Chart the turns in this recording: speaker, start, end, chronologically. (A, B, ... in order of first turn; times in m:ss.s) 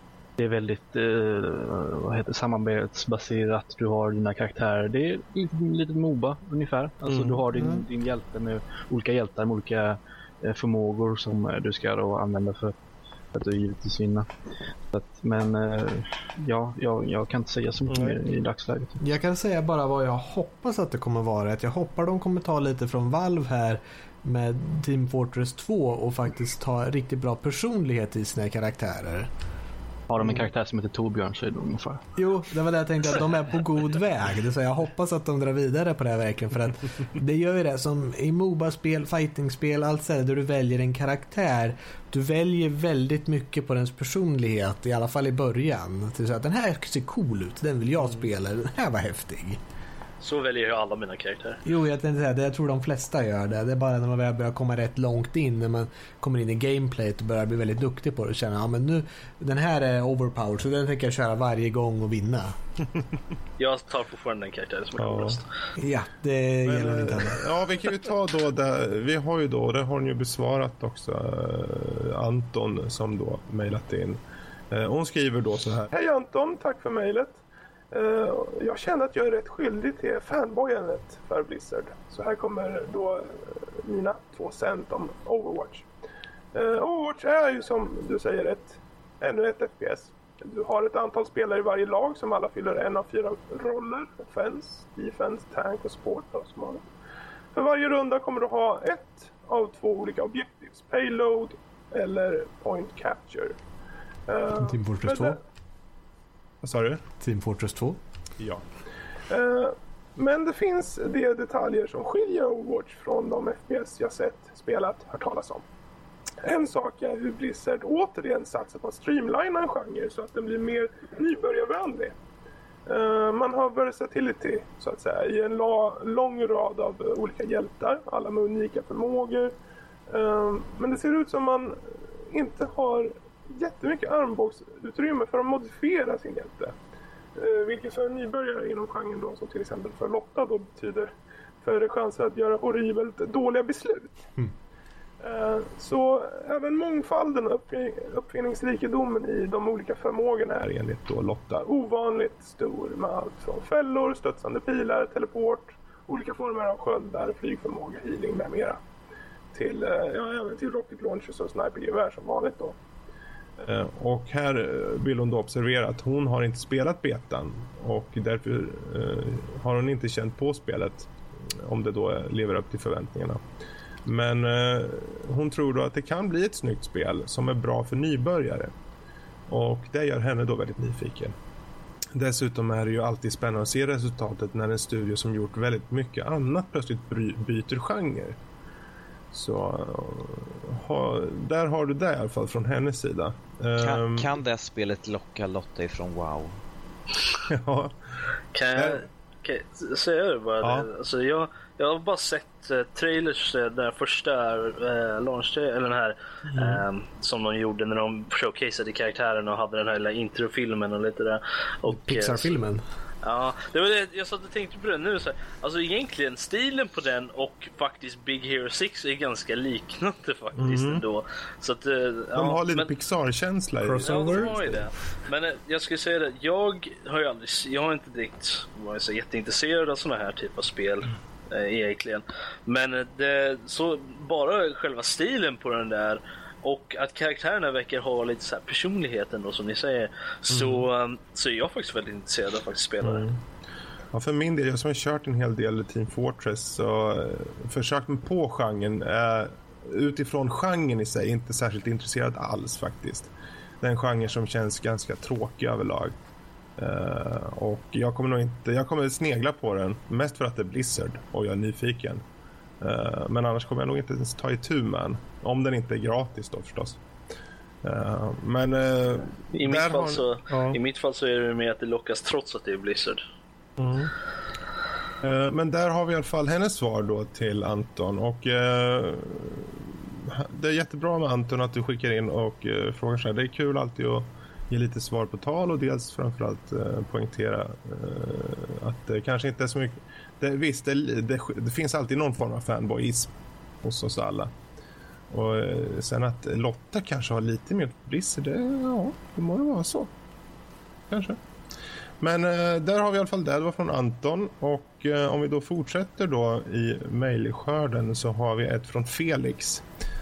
0:00.4-0:12.8 A
0:07.1-0:07.4 B
0:07.5-0:07.8 C
0:13.3-0:14.3 A
0:14.9-0:19.0 A
0:17.9-0:18.2 B
0:19.0-0:29.3 C
0:30.1-0:32.0 A
0:32.2-0:49.6 C
0:50.2-0:51.6 D
0:51.6-1:02.6 C
1:03.6-1:05.5 D
1:05.0-1:05.4 B
1:05.8-1:07.4 C
1:06.6-1:14.2 B
1:14.7-1:25.9 B
1:26.5-1:36.9 B
1:37.5-1:43.6 B
1:44.3-1:45.4 B
1:44.6-1:45.4 C
1:46.6-1:47.0 B
1:47.2-1:48.0 C
1:48.4-1:48.6 B
1:49.3-1:55.6 B
1:56.4-2:02.2 B
2:02.9-2:09.5 B
2:10.1-2:16.8 B
2:17.4-2:21.1 B
2:21.6-2:24.3 B
2:25.2-2:38.8 B
2:39.5-2:42.8 B
2:43.6-2:53.4 B
2:54.0-2:58.7 B
2:59.5-3:01.3 B
3:02.2-3:08.4 B
3:09.3-3:14.4 B
3:13.8-3:16.6 E
3:17.5-3:18.0 B
3:18.5-3:32.6 D
3:18.8-3:19.0 B
3:20.6-3:20.9 B
3:26.5-3:26.8 B
3:31.9-3:32.8 C
3:33.2-3:42.9 D
3:40.6-3:41.0 B
3:42.3-3:44.9 B
3:43.9-4:03.3 D
4:00.5-4:00.9 B
4:03.0-4:03.4 B
4:04.1-4:16.1 B
4:16.8-4:22.2 B
4:22.8-4:27.0 B
4:27.8-4:30.8 B
4:29.5-4:33.2 D
4:33.8-4:34.1 B
4:35.2-4:54.5 B
4:55.3-5:00.1 B
5:01.1-5:01.4 B
5:02.2-5:09.8 B